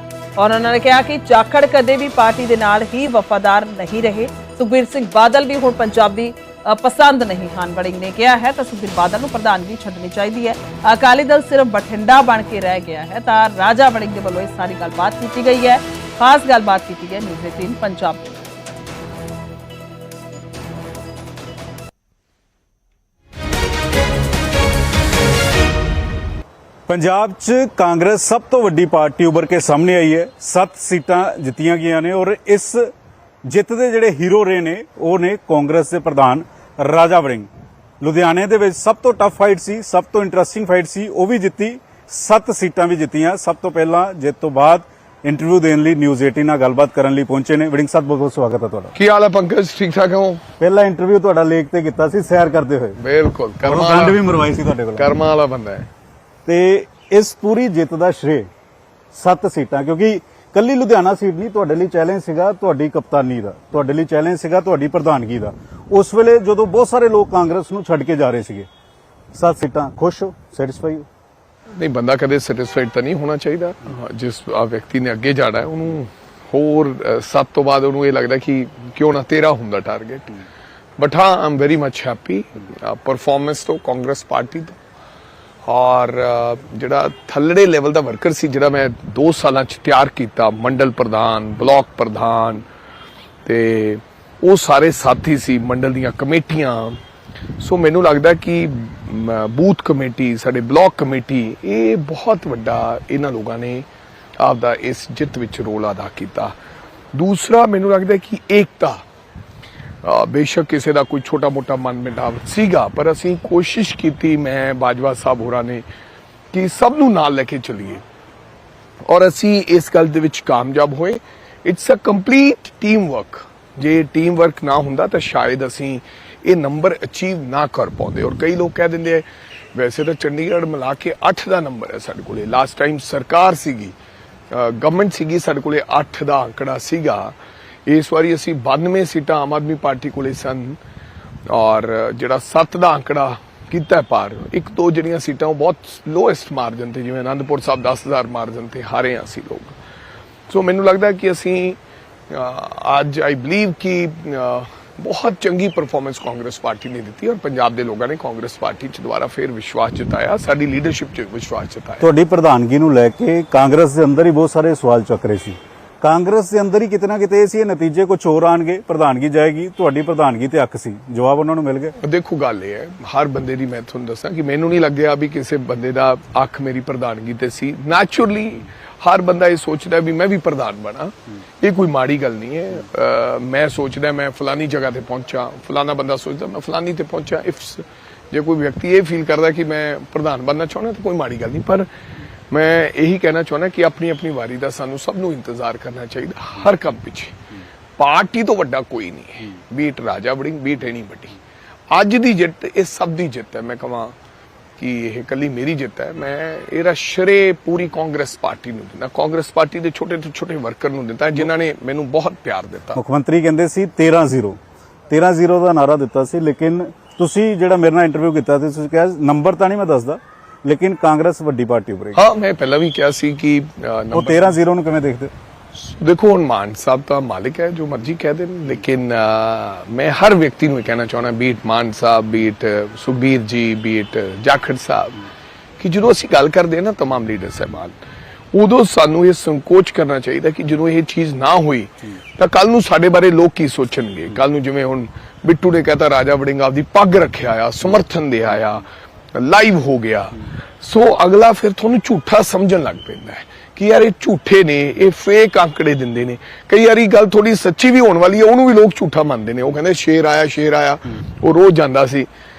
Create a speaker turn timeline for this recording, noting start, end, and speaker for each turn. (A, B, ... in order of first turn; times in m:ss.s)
0:00.4-0:18.3 A
0:26.9-0:32.8 B
0:33.4-0:37.5 B
0:38.0-0:48.9 B
0:48.9-0:50.4 C
0:50.6-0:53.0 B
0:53.0-0:54.2 C
0:53.6-0:55.1 B
0:55.0-0:55.8 C
0:56.4-0:58.4 B
0:59.1-1:08.7 B
1:09.3-1:11.1 B
1:11.8-1:20.4 C
1:21.0-1:24.8 C
1:25.7-1:32.7 C
1:33.4-1:37.0 C
1:37.6-1:43.8 C
1:44.4-1:46.5 C
1:47.1-1:49.0 C
1:50.0-1:55.8 C
1:56.5-1:58.0 C
1:59.1-2:14.0 C
2:14.5-2:17.3 C
2:17.9-2:20.8 C
2:21.5-2:29.8 C
2:30.5-2:31.8 C
2:32.3-2:42.1 C
2:42.0-2:52.0 B
2:52.0-3:11.9 C
3:12.5-3:17.4 C
3:18.0-3:21.4 C
3:21.9-3:24.2 C
3:24.8-3:33.0 C
3:33.0-3:34.6 B
3:35.1-3:42.2 B
3:42.2-3:44.6 C
3:44.1-3:45.3 B
3:45.7-3:55.2 C
3:55.8-3:58.0 C
3:58.5-4:22.3 C